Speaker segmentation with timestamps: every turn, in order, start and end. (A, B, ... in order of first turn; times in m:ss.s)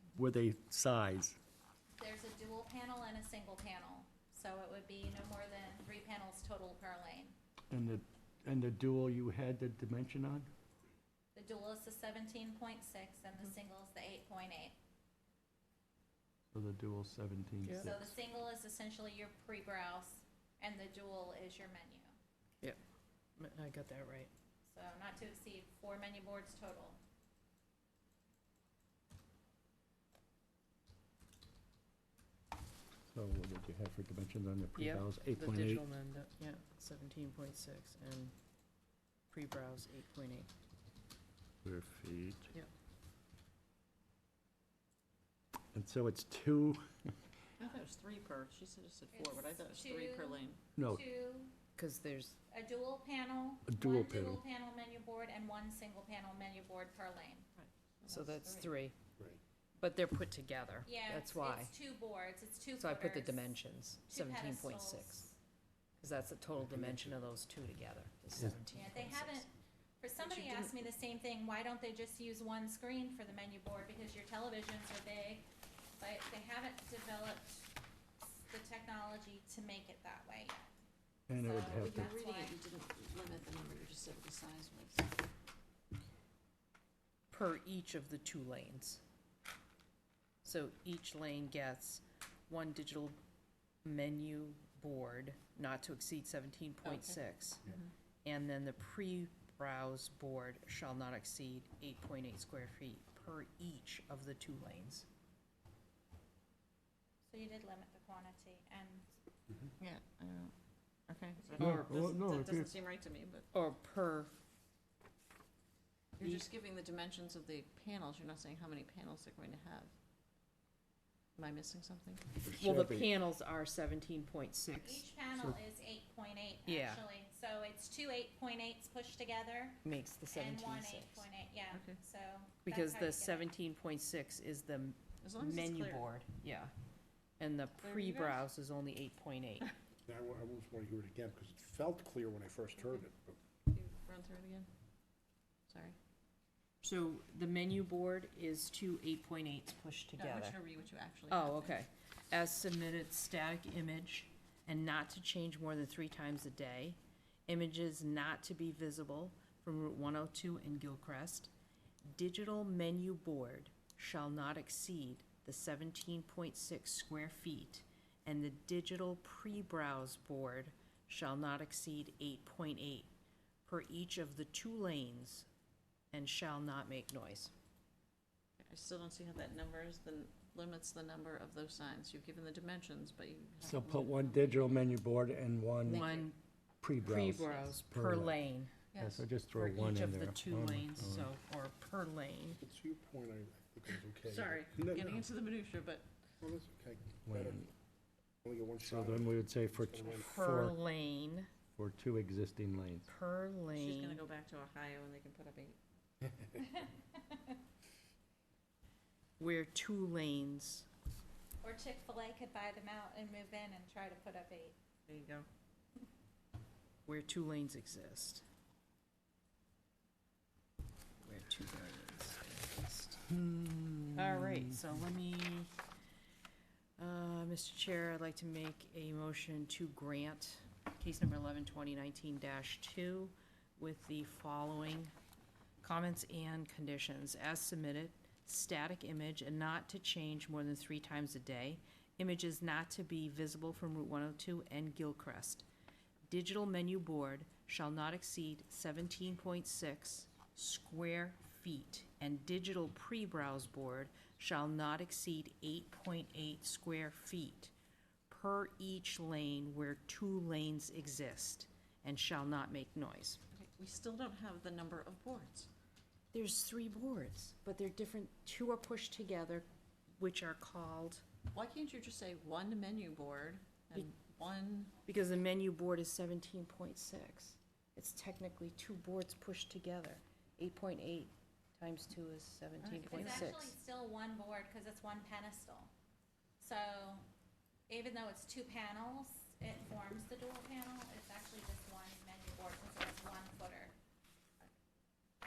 0:00.2-0:01.4 A
0:02.0-0:07.3 B
0:07.7-0:10.5 A
0:11.3-0:14.7 B
0:16.5-0:18.2 A
0:17.6-0:17.9 C
0:17.8-0:22.1 B
0:23.4-0:24.3 C
0:24.7-0:27.0 B
0:33.1-0:35.8 A
0:34.7-0:38.3 C
0:39.3-0:40.5 C
0:41.6-0:42.5 A
0:45.7-0:47.1 A
0:47.6-0:50.6 D
0:49.1-0:51.5 B
0:50.8-0:51.0 A
0:51.8-0:52.4 C
0:52.5-0:57.5 B
0:53.7-0:54.4 A
0:57.6-0:58.7 D
0:58.1-0:59.0 C
0:59.8-1:01.7 C
1:00.8-1:03.5 B
1:02.8-1:05.3 C
1:04.1-1:05.3 B
1:06.0-1:09.5 C
1:06.7-1:07.2 E
1:08.7-1:09.5 B
1:10.0-1:15.5 B
1:16.0-1:20.7 B
1:21.3-1:22.1 A
1:21.3-1:22.6 B
1:21.6-1:25.1 D
1:27.3-1:29.0 C
1:30.4-1:33.2 C
1:33.8-1:37.6 C
1:36.8-1:37.9 D
1:38.2-1:45.1 C
1:47.3-1:49.1 B
1:49.8-1:50.5 D
1:51.1-1:53.5 D
1:51.6-1:52.7 A
1:53.5-1:54.4 C
1:56.2-1:59.9 D
2:01.4-2:02.3 D
2:02.4-2:03.1 A
2:02.5-2:05.0 C
2:04.8-2:13.5 B
2:06.7-2:07.0 C
2:09.8-2:11.3 C
2:11.7-2:12.0 D
2:12.6-2:16.7 C
2:15.2-2:16.0 D
2:17.4-2:19.7 C
2:17.8-2:18.4 D
2:20.1-2:23.4 E
2:23.7-2:24.7 D
2:25.7-2:26.0 D
2:26.8-2:30.6 C
2:30.2-2:31.8 D
2:31.3-2:41.5 C
2:42.0-2:53.1 C
2:53.7-2:55.5 C
2:56.1-2:57.5 C
2:58.6-3:04.8 D
3:03.6-3:06.1 A
3:05.9-3:06.3 D
3:05.9-3:06.4 C
3:06.8-3:08.4 A
3:07.0-3:08.7 C
3:07.4-3:07.8 D
3:08.9-3:09.2 D
3:09.0-3:11.3 A
3:09.5-3:12.6 C
3:12.6-3:15.2 E
3:14.2-3:16.1 D
3:16.4-3:17.7 E
3:17.2-3:17.7 A
3:18.4-3:20.4 E
3:18.8-3:20.8 A
3:20.2-3:21.5 C
3:21.8-3:23.1 A
3:23.1-3:24.2 C
3:23.7-3:25.8 D
3:26.6-3:27.6 B
3:29.4-3:30.9 C
3:31.6-3:34.8 B
3:35.1-3:35.5 D
3:37.1-3:38.4 C
3:41.2-3:43.2 C
3:43.3-3:44.8 A
3:44.2-3:45.7 C
3:47.0-3:55.1 C
3:55.8-4:05.7 C
4:06.2-4:17.7 C
4:18.3-4:23.4 C
4:23.5-4:25.7 D
4:26.3-4:29.7 C
4:30.2-4:31.2 C
4:31.5-4:34.9 D
4:35.1-4:43.8 C
4:42.8-4:43.6 D
4:43.1-4:45.9 B
4:46.6-4:47.2 B
4:47.9-4:53.9 B